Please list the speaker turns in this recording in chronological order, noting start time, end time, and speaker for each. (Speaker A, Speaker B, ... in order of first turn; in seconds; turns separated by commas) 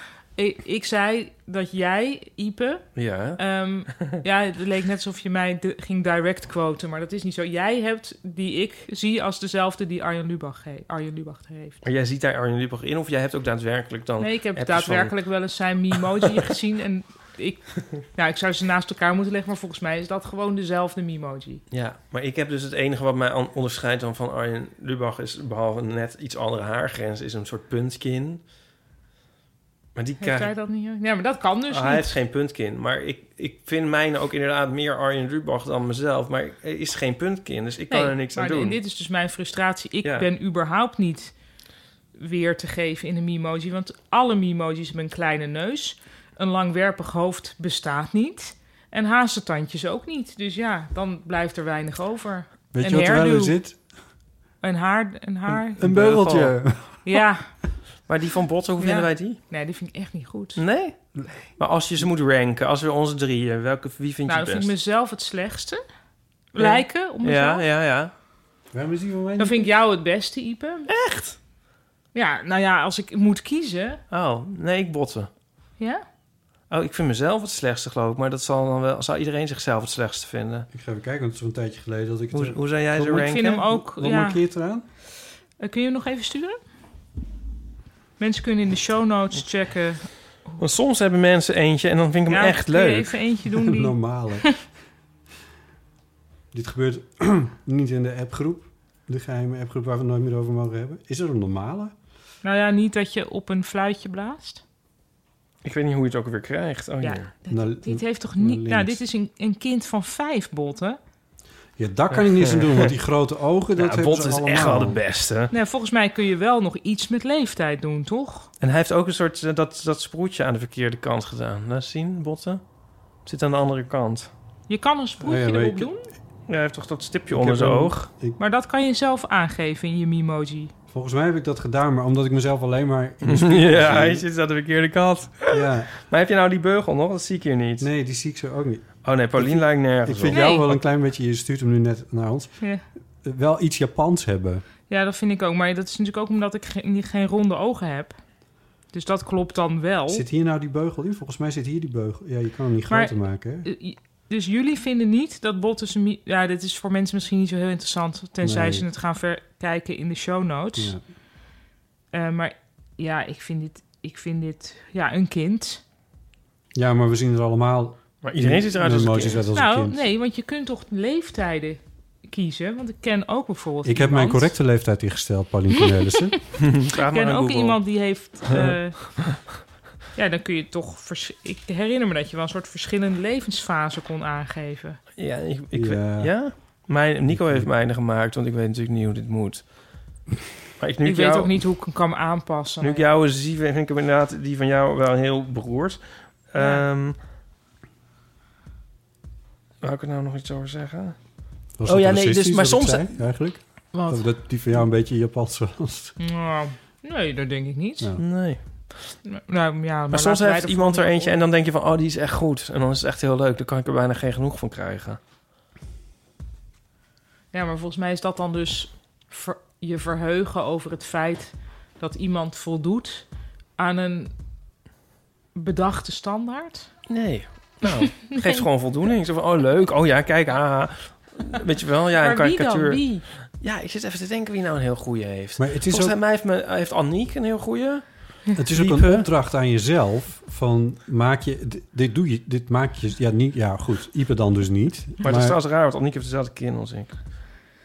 Speaker A: 0.3-11.8, Speaker B: 2.9-4.1, Speaker B: 11.8-15.1, Speaker A: 14.2-21.6, Speaker B: 21.7-28.4, Speaker B: 29.9-30.5, Speaker A: 30.2-32.1, Speaker B: 31.7-38.8, Speaker A: 37.9-41.3, Speaker A: 42.1-53.6, Speaker C: 52.7-53.8, Speaker A: 54.6-55.8, Speaker C: 55.5-57.2, Speaker B: 55.8-56.6, Speaker A: 57.0-57.5, Speaker B: 58.1-59.4, Speaker A: 58.8-60.6, Speaker B: 60.5-64.7, Speaker A: 64.3-65.8, Speaker A: 66.5-67.6, Speaker B: 66.5-68.1, Speaker C: 68.7-69.7, Speaker A: 69.4-70.9, Speaker B: 70.9-71.4, Speaker A: 72.1-74.0, Speaker B: 74.1-75.3, Speaker A: 75.8-76.0, Speaker B: 76.7-80.7, Speaker C: 80.7-84.8, Speaker B: 82.3-83.6, Speaker A: 83.1-84.4, Speaker A: 85.6-86.6, Speaker A: 88.2-90.6, Speaker B: 90.6-93.1, Speaker A: 92.3-94.0, Speaker C: 93.5-94.7, Speaker C: 96.5-101.9, Speaker A: 102.4-104.6, Speaker B: 105.6-107.3, Speaker A: 107.0-111.0, Speaker C: 107.5-109.0, Speaker C: 111.8-115.0, Speaker B: 112.1-112.9, Speaker B: 113.8-115.5, Speaker A: 115.5-118.5, Speaker B: 118.6-122.6, Speaker B: 123.2-124.3, Speaker A: 124.7-126.1, Speaker C: 125.2-125.9, Speaker B: 126.5-128.1, Speaker C: 127.3-128.4, Speaker A: 128.4-130.7, Speaker C: 130.9-134.2, Speaker B: 133.2-137.9, Speaker C: 135.5-135.9, Speaker C: 137.8-142.7, Speaker B: 139.0-140.4, Speaker A: 140.3-140.8, Speaker C: 143.2-144.6, Speaker A: 144.9-148.2, Speaker A: 148.9-150.2, Speaker C: 150.1-153.7, Speaker A: 152.9-160.9, Speaker C: 158.4-158.8, Speaker C: 160.8-161.0, Speaker A: 162.1-165.8, Speaker C: 166.7-170.0, Speaker B: 168.2-169.4, Speaker A: 169.5-174.5, Speaker C: 173.8-176.3, Speaker B: 176.6-177.8, Speaker A: 177.1-179.4, Speaker B: 178.4-179.4, Speaker A: 180.1-185.0, Speaker B: 185.2-189.9, Speaker C: 185.7-187.7, Speaker B: 190.8-191.6, Speaker A: 191.0-193.1, Speaker B: 192.8-197.2, Speaker A: 196.6-196.8, Speaker B: 199.8-201.2, Speaker C: 201.8-206.2, Speaker B: 201.8-203.2, Speaker A: 203.9-204.3, Speaker A: 206.2-208.1, Speaker B: 208.2-209.2, Speaker A: 209.2-211.4, Speaker B: 210.1-215.2, Speaker A: 217.5-224.3, Speaker A: 225.5-226.9, Speaker B: 227.1-239.3, Speaker A: 232.2-233.2, Speaker C: 235.6-236.2, Speaker C: 238.6-245.6, Speaker B: 245.2-247.2